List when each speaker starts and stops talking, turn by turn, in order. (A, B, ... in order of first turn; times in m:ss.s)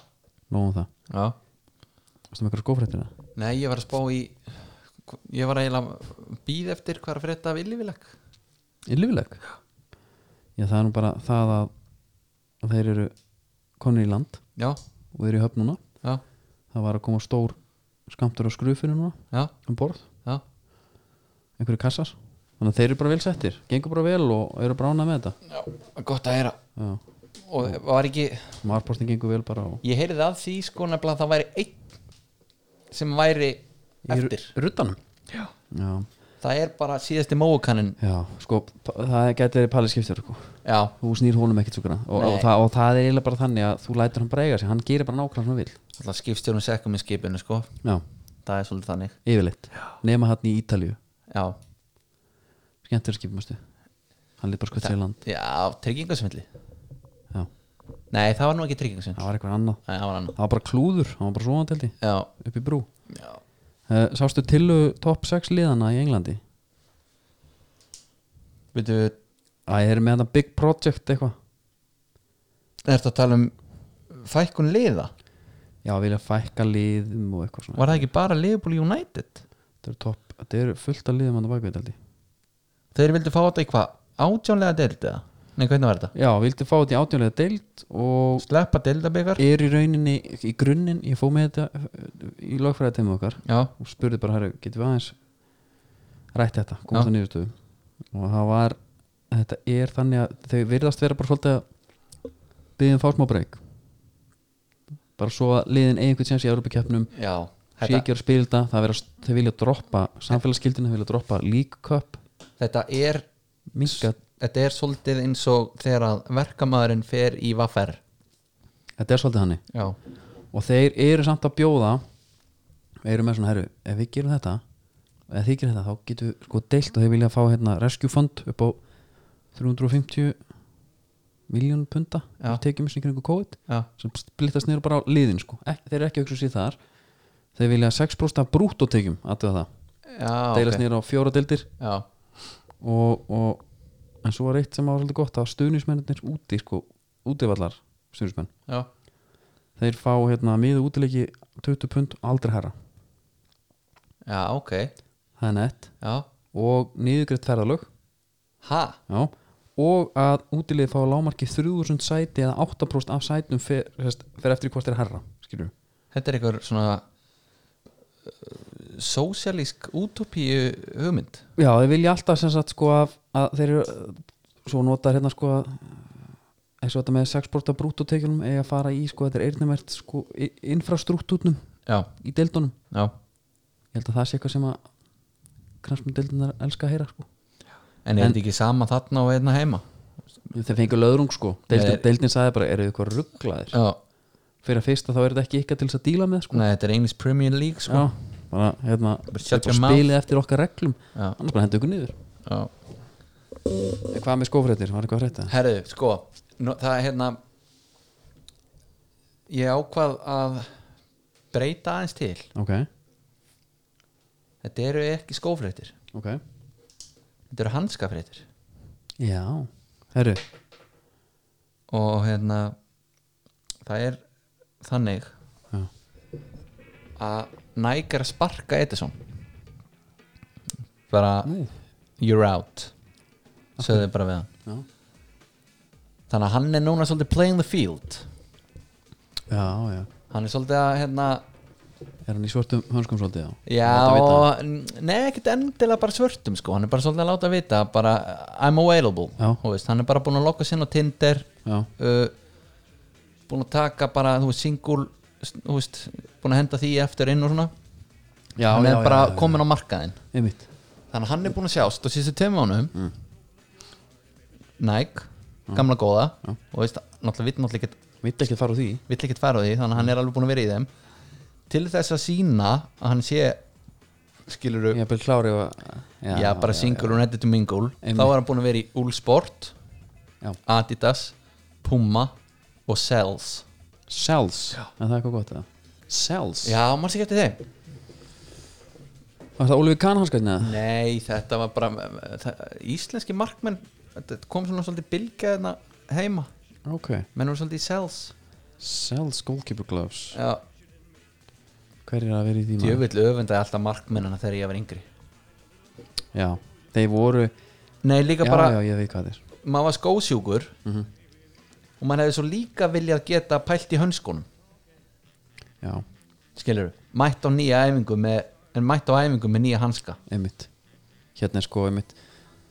0:00.5-0:00.9 A
0:01.1-0:01.3 B
0:02.3-0:03.1 A
0:03.4-0:08.1 B
0:08.9-0:09.4 A
0:10.6-0:11.7 A
0:12.6-0:13.1 A
0:13.8-0:14.4 A
0:15.1-0:15.8 A
0:16.7-0:20.0 A
0:21.6-0:25.4 A
0:25.5-0:26.6 B
0:26.8-0:27.0 A
0:27.4-0:28.6 B
0:28.6-0:29.8 A
0:29.8-0:31.8 B
0:32.9-0:34.5 B
0:34.1-0:35.0 A
0:35.7-0:36.1 A
0:36.4-0:38.0 B
0:38.0-0:45.8 A
0:40.6-0:40.9 B
0:42.1-0:42.5 B
0:46.0-0:47.7 B
0:48.4-0:49.2 B
0:49.2-0:51.0 A
0:51.3-0:51.6 B
0:52.8-0:53.6 A
0:54.4-0:55.2 A
0:54.8-0:56.5 B
0:58.1-0:59.2 B
0:59.2-0:59.8 A
0:59.8-1:00.3 B
1:00.3-1:02.9 A
1:02.0-1:02.3 B
1:03.1-1:03.4 B
1:03.9-1:06.4 A
1:08.7-1:09.2 B
1:09.7-1:11.4 A
1:12.8-1:13.5 B
1:14.1-1:15.1 B
1:15.8-1:18.0 A
1:17.8-1:19.4 B
1:19.8-1:22.0 A
1:22.9-1:26.1 B
1:26.1-1:28.4 A
1:28.4-1:29.4 B
1:29.4-1:35.1 A
1:33.4-1:33.7 B
1:36.3-1:37.5 A
1:38.1-1:38.8 A
1:39.3-1:41.6 A
1:42.8-1:43.6 A
1:45.2-1:47.1 A
1:47.1-1:48.0 B
1:47.8-1:52.2 A
1:52.6-1:53.2 B
1:53.7-1:54.2 A
1:53.8-1:58.0 B
1:59.0-1:59.6 A
2:00.5-2:02.0 A
2:03.0-2:04.6 A
2:05.3-2:08.8 A
2:09.5-2:10.4 A
2:11.5-2:16.8 A
2:17.6-2:19.7 A
2:20.1-2:20.8 B
2:20.5-2:21.7 A
2:21.8-2:22.0 B
2:22.8-2:23.6 A
2:24.2-2:28.5 A
2:29.8-2:32.7 A
2:34.2-2:34.9 B
2:35.4-2:35.9 A
2:36.0-2:36.3 B
2:36.5-2:37.9 A
2:38.6-2:39.0 B
2:39.1-2:45.7 A
2:46.1-2:47.0 B
2:48.3-2:51.4 B
2:51.6-2:56.2 A
2:56.8-3:01.6 A
3:02.2-3:02.7 A
3:03.9-3:04.8 A
3:05.8-3:07.3 A
3:08.0-3:09.8 B
3:10.5-3:13.8 A
3:11.7-3:12.0 B
3:13.7-3:14.0 B
3:14.6-3:16.6 A
3:16.5-3:18.1 B
3:17.9-3:22.1 A
3:19.3-3:20.1 B
3:22.4-3:22.7 B
3:24.1-3:25.5 A
3:25.5-3:27.4 B
3:29.5-3:30.7 B
3:31.5-3:32.5 B
3:32.5-3:32.9 A
3:34.6-3:35.9 B
3:36.1-3:36.4 A
3:37.5-3:38.4 B
3:39.2-3:40.4 A
3:41.9-3:42.8 B
3:43.8-3:44.2 B
3:44.8-3:45.3 B
3:47.2-3:49.2 B
3:51.1-3:51.5 B
3:51.4-3:51.7 A
3:52.2-3:52.9 B
3:53.8-3:54.1 A
3:53.8-3:54.5 B
3:56.3-3:58.3 B
3:59.5-4:00.1 A
4:00.3-4:01.4 B
4:02.2-4:04.5 A
4:03.6-4:12.3 B
4:13.5-4:17.7 B
4:18.6-4:19.6 A
4:18.6-4:20.2 B
4:20.3-4:20.6 A
4:21.1-4:22.9 B
4:24.8-4:28.0 B
4:28.2-4:29.0 A
4:29.1-4:30.9 B
4:31.7-4:33.6 B
4:34.5-4:35.0 B
4:34.9-4:37.2 A
4:36.3-4:39.7 B
4:38.0-4:38.3 A
4:40.6-4:42.3 B
4:42.9-4:43.6 B
4:44.1-4:46.8 A
4:46.6-4:47.6 B
4:49.6-4:50.8 A
4:50.6-4:56.5 B
4:56.8-4:57.3 A
4:57.3-4:58.3 B
4:58.8-5:00.4 A
5:00.3-5:00.6 B
5:02.0-5:03.0 A
5:02.8-5:05.0 B
5:06.3-5:07.5 A
5:08.0-5:08.8 B
5:08.4-5:09.4 A
5:09.6-5:10.7 B
5:12.0-5:14.4 B
5:16.6-5:20.2 B
5:20.3-5:20.7 A
5:21.4-5:22.1 A